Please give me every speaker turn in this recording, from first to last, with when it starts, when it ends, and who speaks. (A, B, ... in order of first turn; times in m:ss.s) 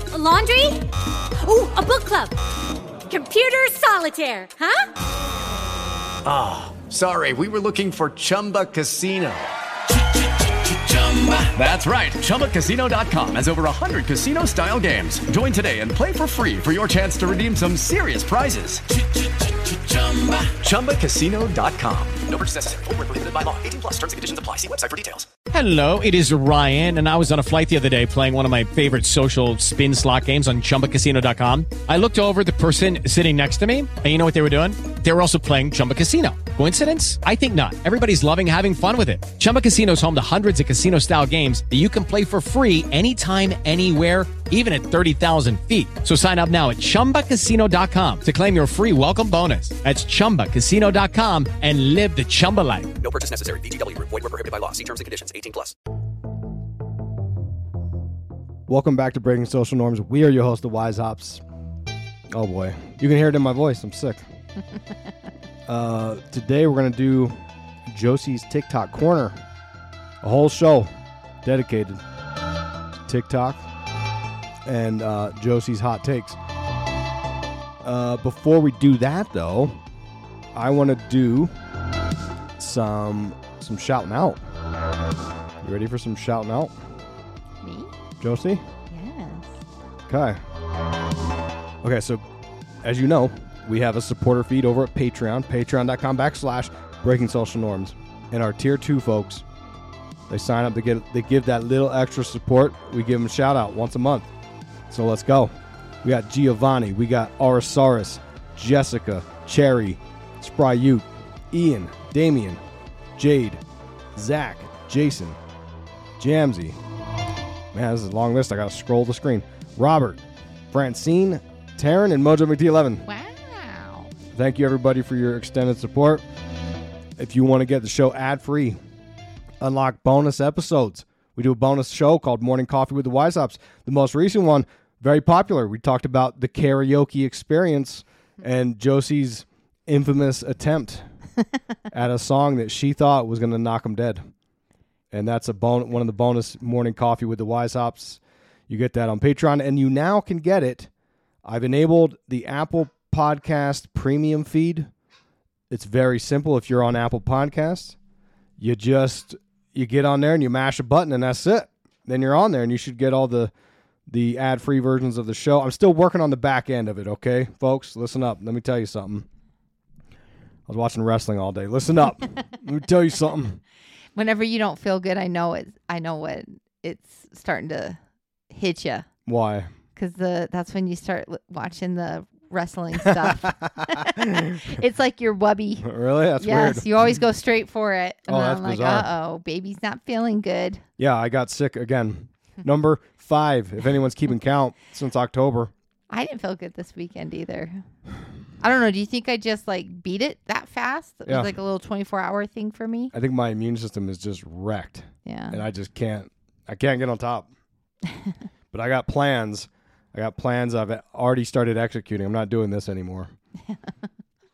0:00.1-0:02.4 A
0:03.1-0:04.9 A
0:06.2-0:09.5 B
0:10.6-0:25.3 B
0:25.5-0:53.0 C
0:53.0-0:55.7 B
0:58.7-1:01.4 D
1:02.3-1:04.3 D
1:05.7-1:09.4 D
1:10.2-1:10.9 D
1:11.4-1:12.0 D
1:13.0-1:13.6 D
1:14.6-1:16.4 D
1:17.8-1:19.8 D
1:20.5-1:21.5 D
1:22.6-1:24.4 D
1:25.6-1:26.7 D
1:27.6-1:27.9 E
1:28.2-1:28.7 D
1:28.9-1:29.6 E
1:30.1-1:30.4 D
1:31.8-1:32.3 D
1:32.8-1:39.4 D
1:40.3-1:44.3 D
1:44.9-1:52.6 D
1:53.2-1:53.6 D
1:54.2-1:55.4 D
1:56.2-1:56.8 D
1:57.7-2:00.2 D
2:00.7-2:03.0 D
2:03.1-2:04.1 E
2:04.3-2:06.2 D
2:07.2-2:08.8 D
2:09.6-2:21.1 D
2:21.9-2:24.3 D
2:25.1-2:30.9 D
2:31.4-2:34.9 D
2:35.7-2:38.0 D
2:38.6-2:43.5 D
2:44.1-2:49.3 D
2:50.7-2:53.6 D
2:54.2-2:58.0 E
2:58.5-2:59.1 E
2:59.3-2:59.7 D
3:00.0-3:10.8 E
3:03.0-3:04.8 D
3:05.8-3:06.9 D
3:08.3-3:09.1 D
3:11.0-3:15.7 D
3:16.1-3:17.8 E
3:18.6-3:23.1 E
3:21.3-3:21.5 D
3:23.1-3:27.5 D
3:25.3-3:25.6 E
3:28.7-3:33.3 D